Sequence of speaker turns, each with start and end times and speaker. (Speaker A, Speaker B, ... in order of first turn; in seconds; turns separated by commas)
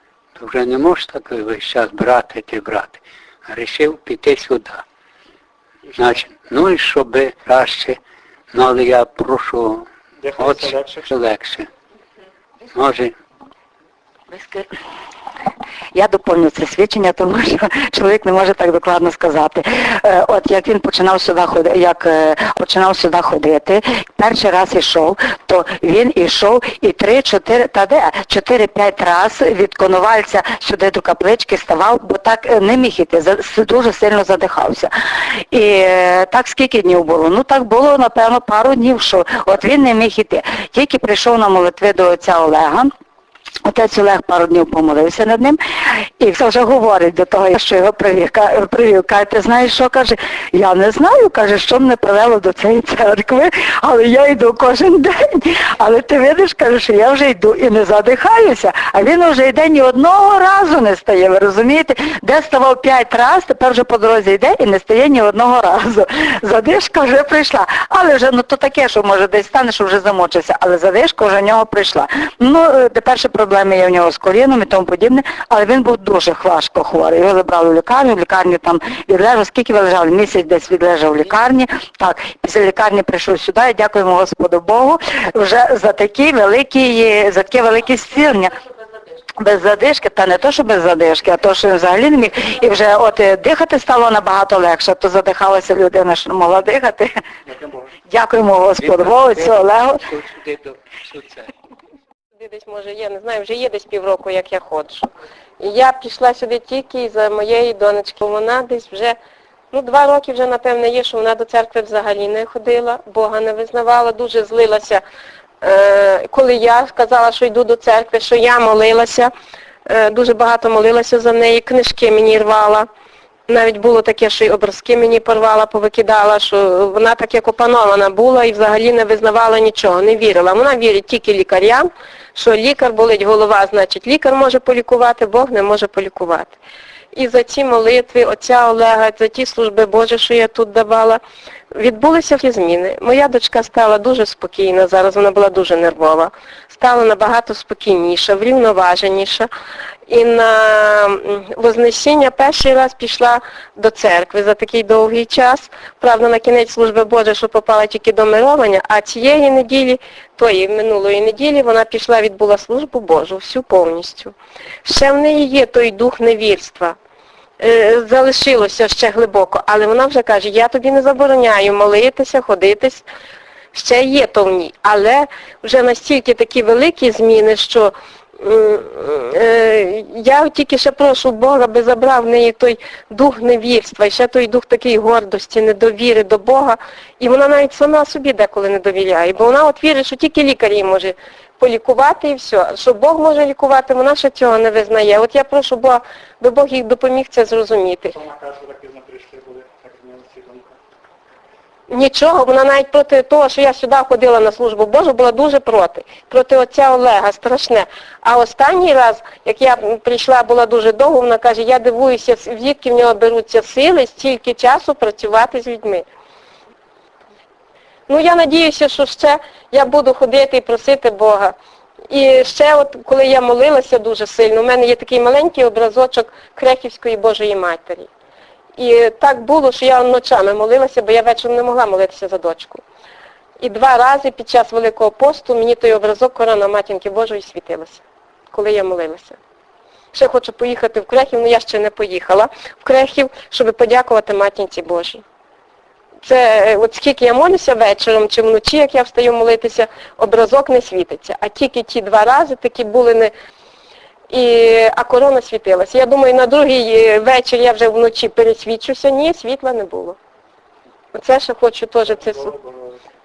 Speaker A: 0.4-4.8, Speaker A: 6.0-8.0, Speaker A: 8.5-9.9, Speaker B: 10.2-11.1, Speaker A: 10.4-11.7, Speaker A: 12.7-13.1, Speaker C: 14.3-14.7, Speaker C: 15.9-42.9, Speaker C: 43.6-45.6, Speaker C: 46.2-88.5, Speaker C: 89.4-97.1, Speaker B: 97.5-97.8, Speaker C: 98.1-100.0, Speaker A: 98.9-99.6, Speaker A: 100.1-101.4, Speaker D: 101.0-101.2, Speaker D: 102.3-105.1, Speaker D: 105.6-109.2, Speaker D: 109.7-115.0, Speaker D: 115.6-119.3, Speaker D: 119.9-122.9, Speaker D: 123.5-136.6, Speaker D: 137.1-141.2, Speaker D: 141.7-149.5, Speaker D: 150.1-167.0, Speaker D: 167.6-173.1, Speaker D: 173.7-198.1, Speaker B: 198.1-200.8, Speaker D: 201.9-216.1, Speaker D: 218.1-221.6, Speaker D: 222.1-228.1, Speaker D: 228.8-232.8, Speaker D: 233.6-239.4, Speaker D: 240.1-245.2, Speaker D: 246.2-253.3, Speaker D: 254.3-260.2, Speaker D: 261.1-262.5, Speaker B: 262.1-263.0